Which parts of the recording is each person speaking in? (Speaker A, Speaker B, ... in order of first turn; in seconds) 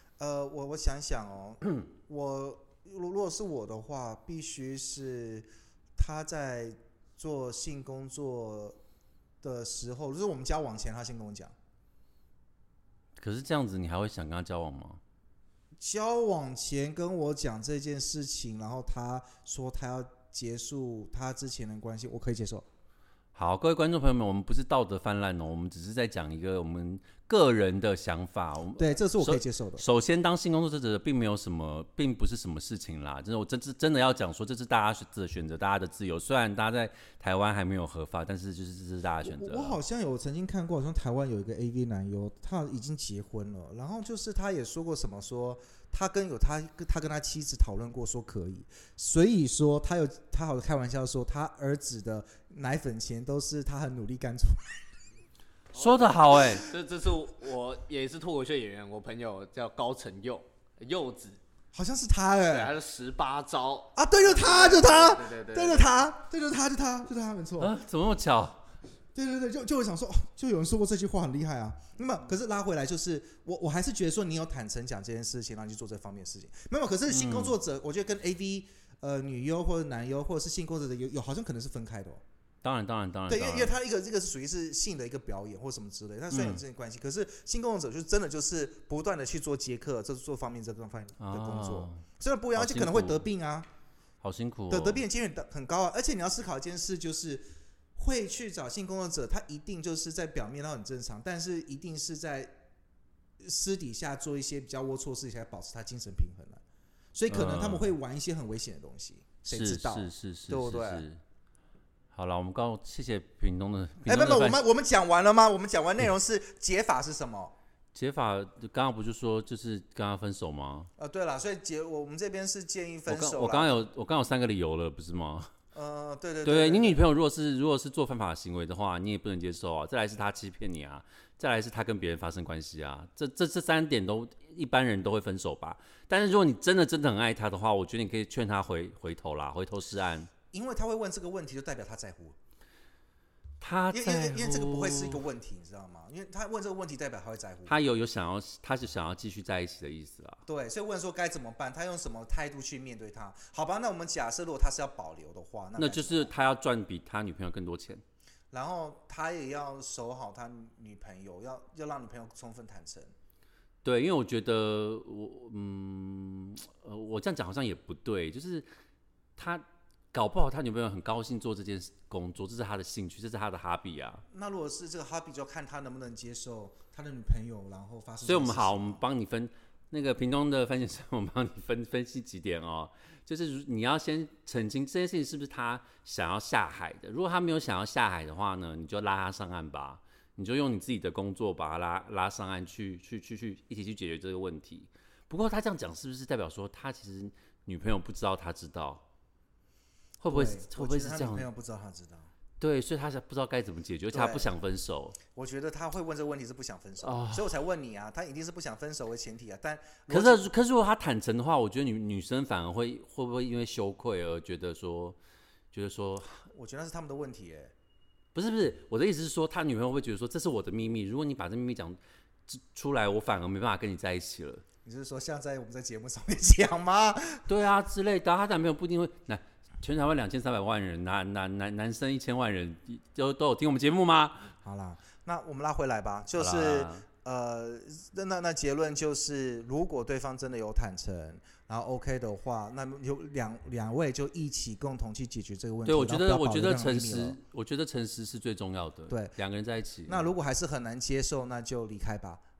Speaker A: 0.2-8.8, 9.4-11.5, 15.8-22.6, 28.8-29.8, 39.2-54.8, 61.7-62.7, 63.9-67.8, 69.1-82.2, 83.3-93.7, 94.7-97.5, 98.0-102.5, 103.4-106.6, 107.1-111.0, 114.0-117.5, 121.0-123.8, 125.7-127.0, 140.5-142.3, 143.9-147.8, 150.4-156.3, 158.5-163.1, 174.3-179.0, 200.3-202.3, 204.1-204.5, 205.3-210.5, 216.5-217.7, 224.8-227.5, 234.6-247.4, 249.1-249.3, 250.1-252.4
Speaker B: 13.2-15.0, 23.3-39.8, 55.7-56.7, 67.6-68.6, 77.1-77.5, 82.6-83.7, 86.3-86.6, 91.2-92.0, 92.5-93.2, 94.2-95.0, 107.3-107.9, 109.5-111.2, 112.1-114.6, 117.9-120.9, 123.1-125.5, 126.4-140.3, 143.6-145.2, 147.7-150.4, 155.8-158.0, 163.8-168.7, 169.3-174.2, 178.2-199.0, 200.2-201.5, 202.6-205.2, 207.0-207.4, 210.1-215.2, 215.7-216.4, 218.3-224.6, 227.5-234.5, 236.3-237.0, 245.8-250.3
Speaker C: 55.7-61.4, 62.5-65.9